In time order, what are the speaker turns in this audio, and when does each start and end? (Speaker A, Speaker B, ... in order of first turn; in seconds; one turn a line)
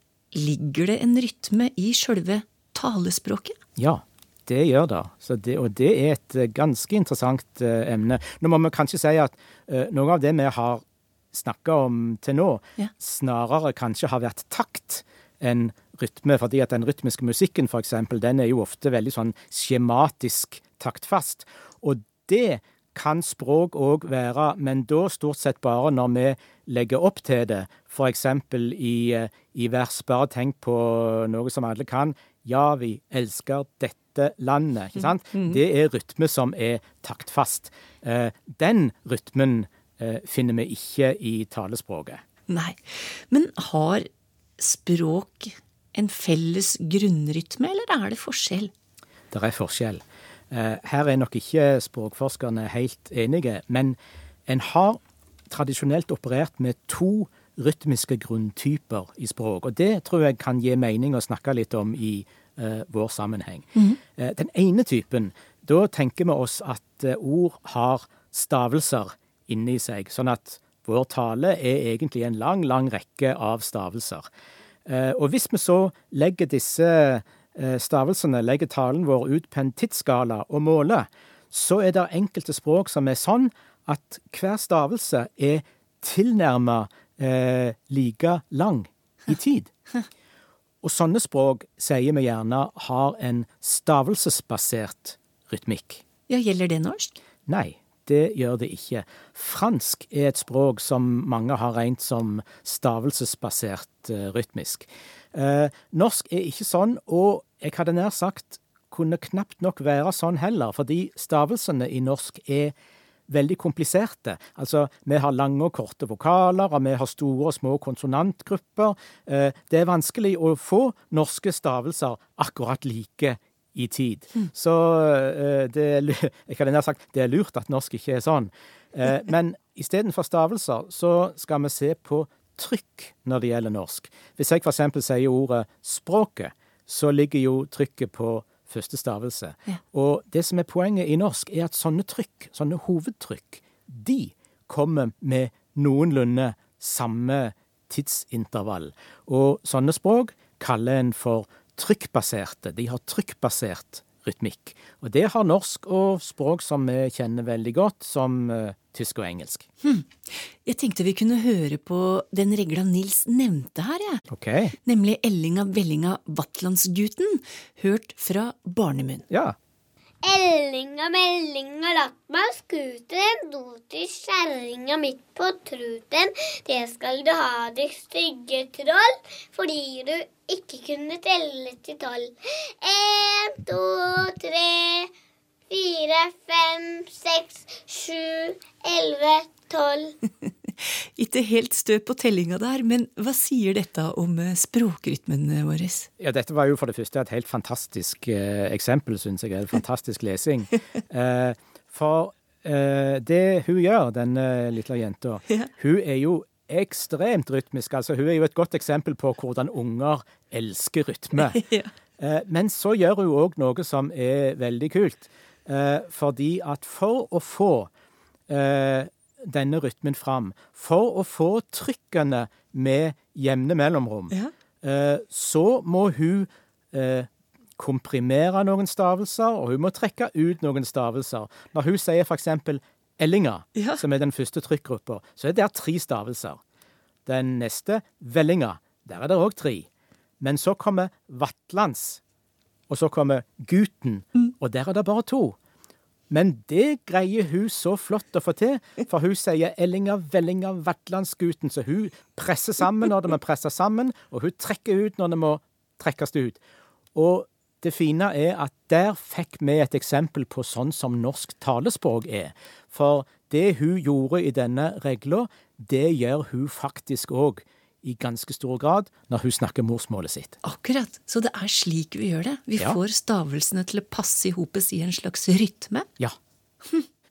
Speaker A: 0.3-3.6
Speaker B: 3.8-42.2
Speaker A: 35.3-35.6
Speaker A: 42.5-44.1
Speaker A: 44.6-48.7
Speaker B: 49.3-74.2
Speaker B: 74.9-89.7
Speaker B: 90.8-96.0
Speaker A: 96.3-97.2
Speaker B: 97.5-112.8
Speaker B: 113.3-159.7
Speaker A: 159.8-164.2
Speaker B: 164.3-164.8
Speaker A: 164.8-169.3
Speaker B: 169.3-169.6
Speaker C: 170.2-185.1
Speaker C: 185.7-190.2
Speaker A: 190.5-196.1
Speaker B: 196.2-211.6
Speaker A: 211.4-211.9
Speaker B: 212.2-217.9
Speaker B: 218.5-236.6
Speaker B: 237.3-239.9
Speaker B: 240.4-242.2
Speaker B: 242.9-245.6
Speaker B: 246.3-256.6
Speaker B: 257.1-270.6
Speaker A: 270.6-276.1